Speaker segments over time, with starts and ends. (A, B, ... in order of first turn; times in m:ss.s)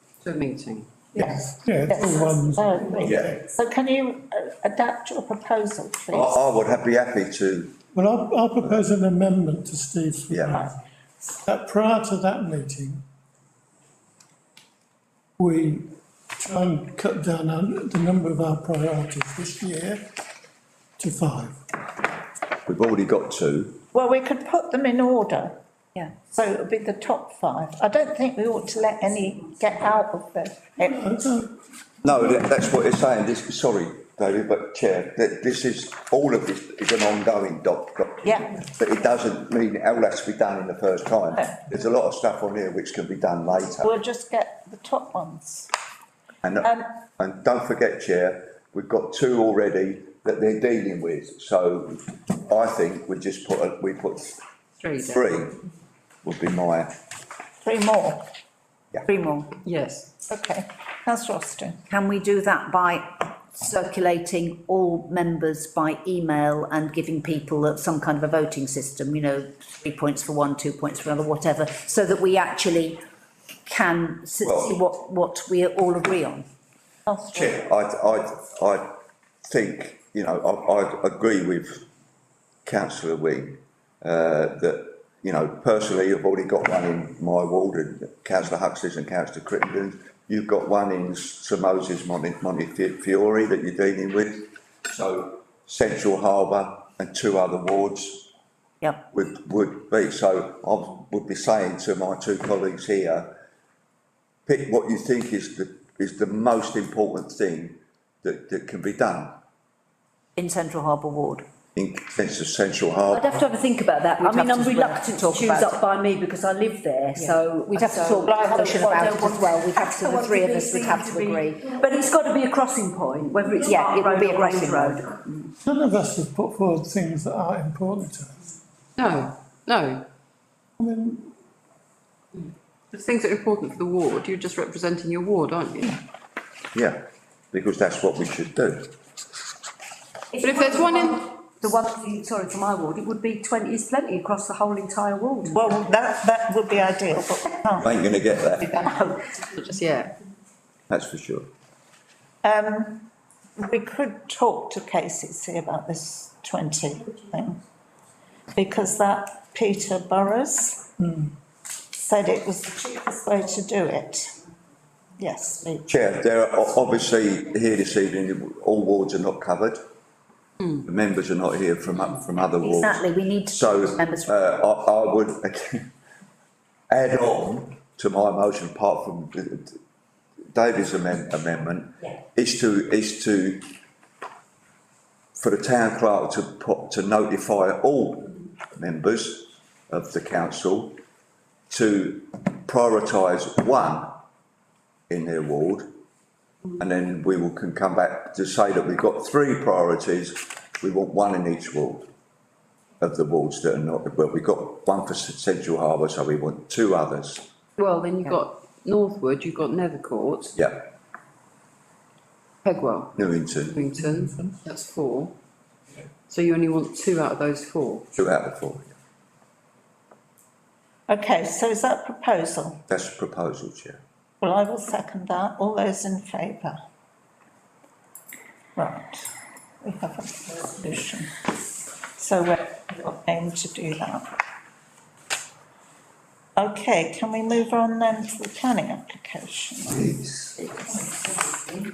0:00.2-0:00.9 A
0:01.2-0:06.4 B
0:01.2-0:03.4 C
0:03.0-0:03.4 D
0:06.1-0:07.8 D
0:07.9-0:10.8 C
0:10.3-0:10.6 D
0:11.5-0:13.0 C
0:15.4-0:15.9 C
0:16.4-0:20.0 C
0:21.0-0:21.6 C
0:22.7-0:23.8 D
0:23.9-0:25.6 B
0:26.2-0:31.1 B
0:30.9-0:31.5 C
0:32.0-0:43.9 D
0:43.8-0:45.7 B
0:46.4-0:54.4 D
0:54.8-0:55.2 A
0:55.0-0:55.6 D
0:56.2-0:56.9 D
0:57.6-0:58.3 B
0:59.1-0:59.6 E
0:59.6-1:00.1 A
1:00.3-1:01.8 B
1:01.9-1:13.0 E
1:13.7-1:16.5 E
1:14.4-1:14.8 D
1:17.1-1:17.6 B
1:17.3-1:21.9 D
1:22.6-1:38.3 D
1:39.1-1:43.3 D
1:44.5-1:49.4 D
1:50.4-1:51.4 E
1:51.8-1:53.4 D
1:53.1-2:05.5 F
1:54.2-1:55.8 E
1:57.2-2:01.8 E
2:03.6-2:05.2 E
2:05.6-2:08.4 C
2:09.0-2:10.0 A
2:10.8-2:11.3 C
2:12.4-2:16.0 A
2:16.7-2:19.0 D
2:20.4-2:25.8 F
2:20.4-2:21.3 A
2:25.5-2:27.9 B
2:27.8-2:28.9 D
2:28.6-2:29.2 B
2:29.6-2:30.1 A
2:30.9-2:31.5 D
2:32.4-2:37.6 B
2:38.5-2:40.9 B
2:41.9-2:44.4 B
2:45.2-2:45.9 B
2:45.9-2:49.8 D
2:50.8-2:55.9 D
2:52.6-2:54.3 E
2:56.9-2:59.8 D
3:00.5-3:03.6 D
3:05.4-3:11.0 D
3:11.7-3:14.2 D
3:15.1-3:15.9 D
3:16.8-3:22.1 D
3:23.0-3:27.5 D
3:27.8-3:30.6 A
3:30.6-3:30.9 D
3:32.6-3:33.2 A
3:33.2-3:33.8 D
3:33.7-3:35.3 A
3:36.3-3:38.0 A
3:38.2-3:38.9 D
3:41.1-3:42.8 B
3:42.9-3:44.0 D
3:44.4-3:46.8 B
3:48.8-3:49.3 B
3:49.8-3:51.4 B
3:52.2-3:54.3 B
3:56.6-4:00.2 B
3:59.9-4:00.6 D